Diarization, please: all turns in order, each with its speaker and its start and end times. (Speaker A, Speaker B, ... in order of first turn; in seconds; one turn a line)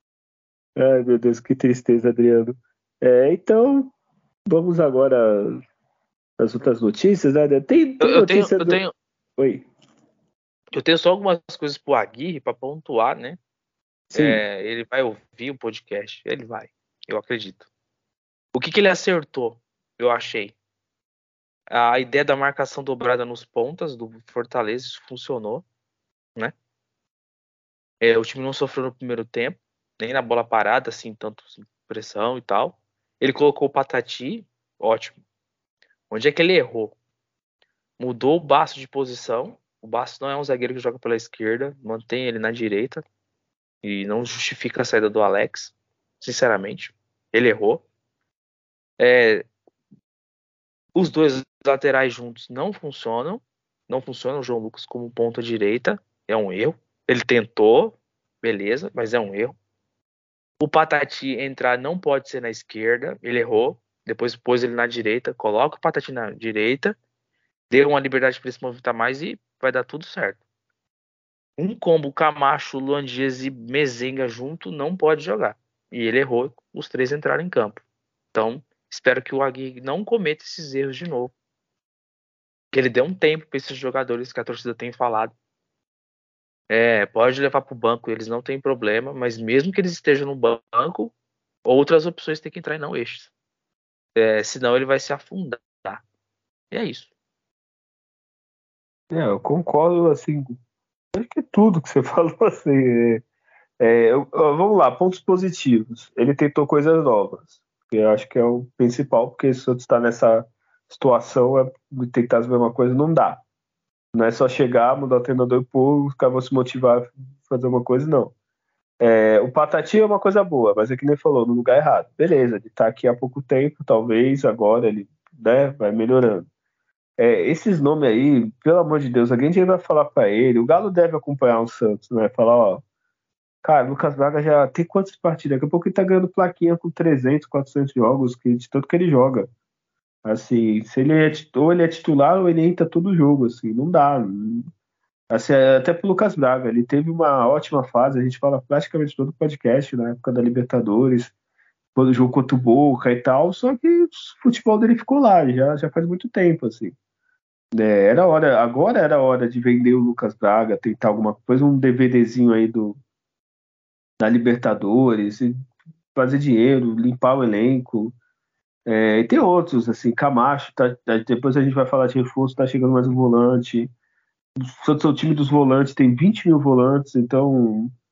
Speaker A: 0.8-3.9
Speaker A: 4.5-5.6
Speaker A: 6.4-8.8
Speaker B: 8.0-8.9
Speaker A: 9.4-9.7
Speaker B: 10.7-13.4
Speaker B: 14.1-17.7
Speaker A: 14.1-14.4
Speaker B: 18.5-20.5
Speaker B: 21.7-25.6
Speaker B: 28.0-35.2
Speaker B: 36.1-37.0
Speaker B: 38.0-43.0
Speaker B: 43.8-47.8
Speaker B: 49.0-49.5
Speaker B: 51.0-59.6
Speaker B: 60.6-67.0
Speaker B: 67.7-70.4
Speaker B: 71.6-81.3
Speaker B: 82.7-85.3
Speaker B: 86.7-91.1
Speaker B: 91.7-93.3
Speaker B: 94.2-96.0
Speaker B: 96.7-97.1
Speaker A: 99.1-100.6
Speaker A: 101.1-103.2
Speaker A: 103.8-113.4
Speaker A: 114.1-118.3
Speaker A: 119.0-126.5
Speaker A: 127.2-132.8
Speaker A: 133.6-139.5
Speaker A: 140.2-144.7
Speaker A: 145.3-151.3
Speaker A: 152.0-156.9
Speaker A: 157.8-163.0
Speaker A: 164.2-165.5
Speaker A: 166.2-168.2
Speaker A: 168.9-173.9
Speaker A: 174.7-177.9